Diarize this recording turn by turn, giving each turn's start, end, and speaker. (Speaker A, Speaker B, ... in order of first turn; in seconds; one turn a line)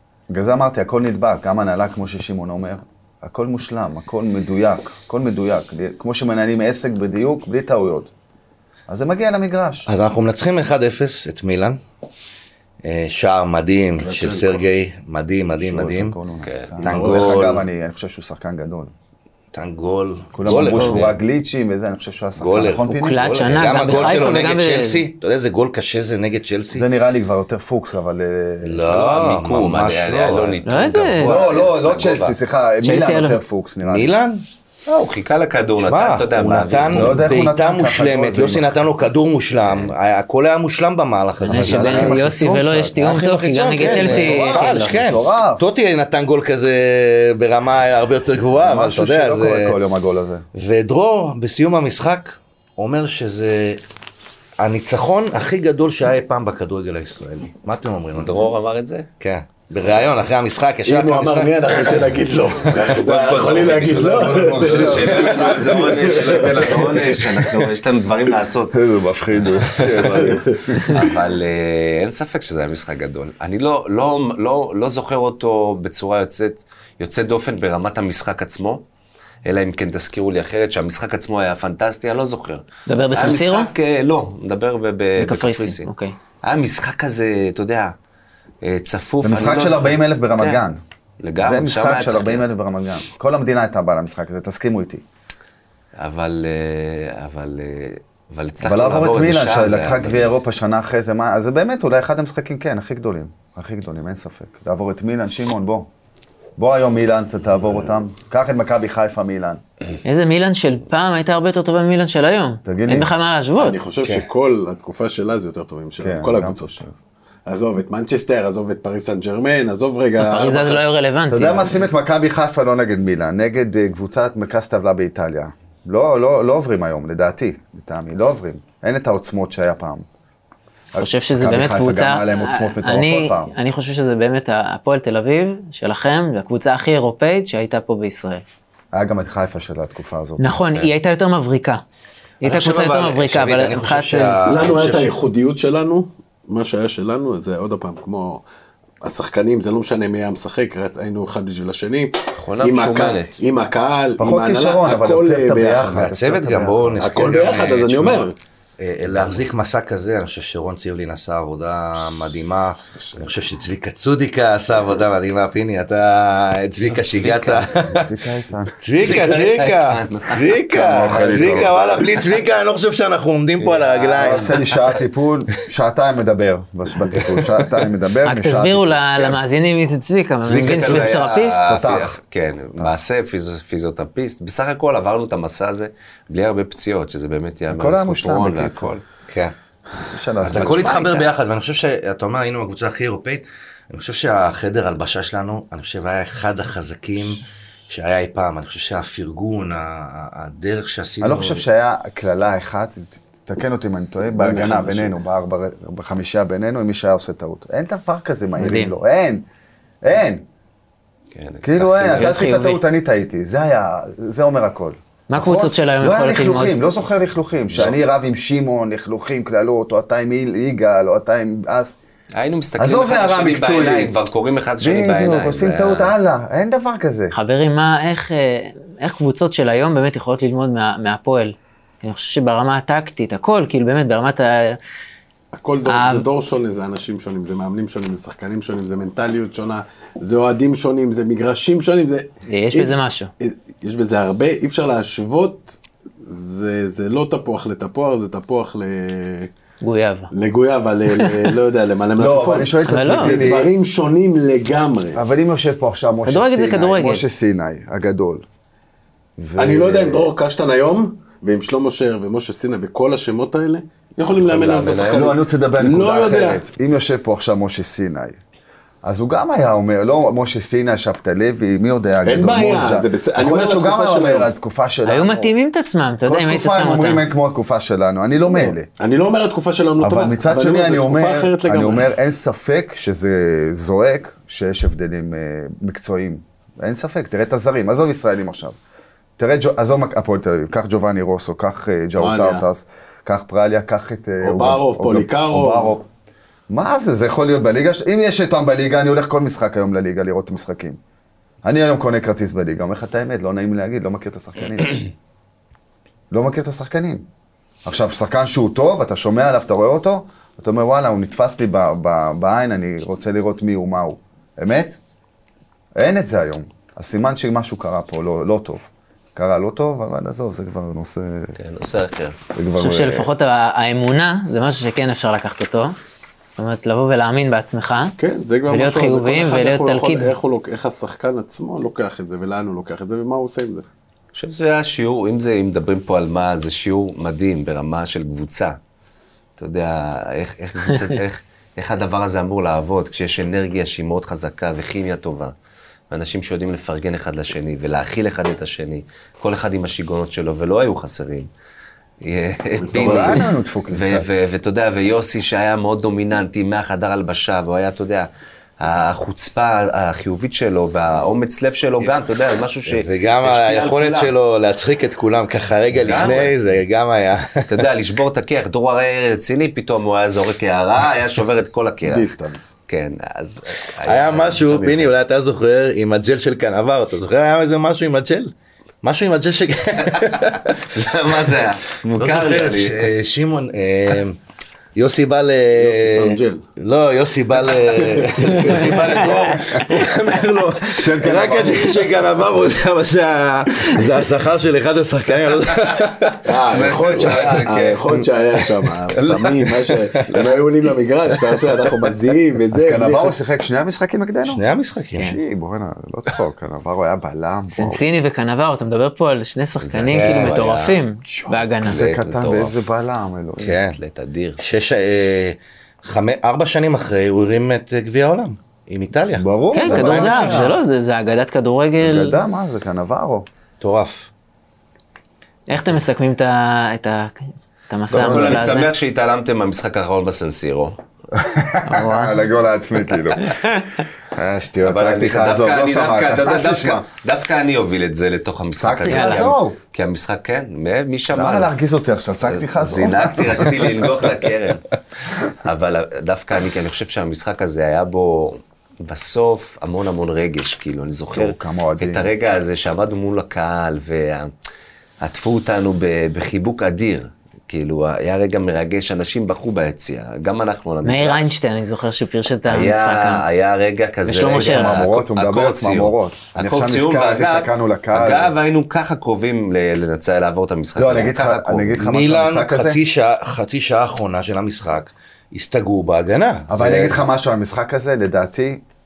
Speaker A: 0.3-8.1
Speaker A: 8.9-9.9
Speaker B: 9.9-11.8
Speaker B: 12.8-16.1
Speaker C: 14.0-14.6
Speaker A: 15.5-18.9
Speaker D: 16.4-16.8
Speaker B: 16.8-17.6
Speaker C: 16.8-17.4
Speaker B: 19.5-21.1
Speaker A: 20.3-24.4
Speaker B: 22.4-26.8
Speaker E: 22.9-25.1
Speaker A: 26.7-28.9
Speaker B: 28.6-30.6
Speaker D: 28.9-32.4
Speaker E: 30.7-31.4
Speaker A: 31.2-34.1
Speaker E: 32.8-33.4
Speaker B: 33.8-34.4
Speaker D: 34.9-37.3
Speaker B: 35.8-42.3
Speaker A: 36.9-39.1
Speaker A: 41.4-43.0
Speaker E: 41.4-44.8
Speaker B: 43.0-49.8
Speaker A: 43.8-45.6
Speaker A: 48.6-50.5
Speaker B: 50.5-53.8
Speaker B: 54.6-58.5
Speaker D: 58.1-59.1
Speaker B: 59.2-62.1
Speaker C: 60.8-67.2
Speaker D: 62.6-68.8
Speaker A: 63.8-66.4
Speaker A: 68.7-71.1
Speaker D: 69.4-70.3
Speaker C: 70.2-70.9
Speaker D: 70.9-78.8
Speaker D: 79.4-85.9
Speaker E: 82.9-83.7
Speaker E: 85.2-86.1
Speaker D: 86.4-87.9
Speaker D: 88.6-90.6
Speaker A: 89.2-90.8
Speaker D: 91.2-92.4
Speaker A: 91.4-95.0
Speaker D: 96.0-100.3
Speaker A: 98.6-105.9
Speaker A: 106.6-109.6
Speaker E: 110.0-113.8
Speaker A: 112.6-113.1
Speaker C: 113.6-116.8
Speaker B: 114.0-114.3
Speaker A: 116.0-116.9
Speaker C: 117.5-120.8
Speaker E: 120.2-121.9
Speaker A: 121.3-130.1
Speaker A: 130.9-133.5
Speaker E: 131.0-138.4
Speaker A: 138.9-140.4
Speaker E: 140.4-141.8
Speaker E: 142.4-144.4
Speaker B: 142.4-145.2
Speaker C: 144.4-148.4
Speaker C: 149.0-156.0
Speaker D: 152.4-153.3
Speaker A: 154.2-157.4
Speaker B: 155.9-168.1
Speaker C: 157.0-158.3
Speaker A: 163.0-163.2
Speaker D: 166.8-168.0
Speaker A: 167.5-168.8
Speaker B: 168.8-174.7
Speaker D: 168.9-172.3
Speaker A: 170.7-172.0
Speaker D: 173.6-174.7
Speaker A: 174.1-179.3
Speaker B: 177.1-177.4
Speaker E: 178.2-181.6
Speaker D: 180.4-189.0
Speaker A: 180.7-182.1
Speaker A: 187.7-188.9
Speaker A: 190.0-191.0
Speaker D: 190.4-191.3
Speaker B: 190.4-201.6
Speaker A: 201.2-209.4
Speaker C: 204.3-205.1
Speaker E: 208.6-208.9
Speaker A: 210.0-210.4
Speaker D: 211.3-212.4
Speaker A: 211.6-222.0
Speaker E: 212.0-212.8
Speaker E: 215.3-216.8
Speaker D: 222.3-226.1
Speaker A: 222.8-224.1
Speaker A: 224.8-227.3
Speaker E: 227.3-234.8
Speaker C: 235.5-249.5
Speaker E: 235.8-236.2
Speaker E: 242.5-243.3
Speaker E: 249.8-250.3
Speaker C: 250.3-255.2
Speaker E: 251.1-251.5
Speaker A: 252.2-253.7
Speaker E: 252.9-253.4
Speaker A: 255.1-258.4
Speaker E: 256.2-257.2
Speaker A: 259.4-260.3
Speaker C: 259.6-266.6
Speaker D: 264.4-265.3
Speaker A: 265.0-268.4
Speaker A: 269.0-275.5
Speaker C: 272.2-274.5
Speaker E: 275.1-277.2
Speaker A: 276.2-278.9
Speaker C: 278.5-282.1
Speaker A: 280.0-288.8
Speaker A: 289.4-296.1
Speaker C: 292.2-292.6
Speaker C: 294.4-295.9
Speaker A: 296.7-301.0
Speaker A: 301.6-305.0
Speaker A: 306.3-307.3
Speaker A: 307.8-315.0
Speaker A: 315.9-318.8
Speaker A: 319.4-321.5
Speaker D: 321.6-322.4
Speaker A: 322.5-323.3
Speaker E: 322.8-325.9
Speaker E: 326.6-328.1
Speaker C: 328.2-333.8
Speaker E: 328.7-330.3
Speaker D: 334.3-338.8
Speaker D: 339.6-345.5
Speaker D: 346.1-351.5
Speaker D: 352.2-364.3
Speaker C: 352.8-353.4
Speaker A: 352.9-354.3
Speaker B: 362.9-367.9
Speaker D: 366.0-366.5
Speaker D: 367.7-372.3
Speaker C: 372.0-372.7
Speaker D: 372.9-375.1
Speaker B: 374.0-378.5
Speaker B: 379.0-384.4
Speaker D: 380.1-383.1
Speaker B: 384.9-398.9
Speaker C: 385.7-386.6
Speaker C: 387.9-389.1
Speaker A: 389.5-389.8
Speaker A: 390.9-392.1
Speaker D: 395.8-397.9
Speaker C: 396.4-403.4
Speaker D: 399.2-399.7
Speaker B: 400.2-400.6
Speaker A: 402.7-404.6
Speaker B: 404.4-405.3
Speaker A: 405.1-408.0
Speaker E: 407.7-412.1
Speaker D: 409.8-411.0
Speaker B: 410.1-410.6
Speaker A: 411.3-413.8
Speaker D: 411.8-412.7
Speaker B: 413.6-414.0
Speaker D: 413.8-414.6
Speaker B: 414.6-420.7
Speaker A: 419.4-420.8
Speaker E: 419.7-422.4
Speaker A: 422.0-423.4
Speaker B: 423.8-424.3
Speaker E: 425.7-428.9
Speaker D: 428.1-431.0
Speaker A: 428.2-428.5
Speaker A: 431.3-433.6
Speaker E: 431.9-432.4
Speaker A: 434.3-437.0
Speaker D: 434.8-441.7
Speaker A: 438.8-439.8
Speaker E: 439.1-439.5
Speaker A: 441.3-443.9
Speaker D: 442.5-444.8
Speaker D: 445.4-454.5
Speaker A: 451.3-452.3
Speaker D: 455.2-461.4
Speaker E: 461.0-463.4
Speaker D: 462.7-471.9
Speaker A: 464.2-468.5
Speaker E: 464.3-465.0
Speaker A: 470.9-473.0
Speaker B: 471.9-477.2
Speaker A: 476.7-478.8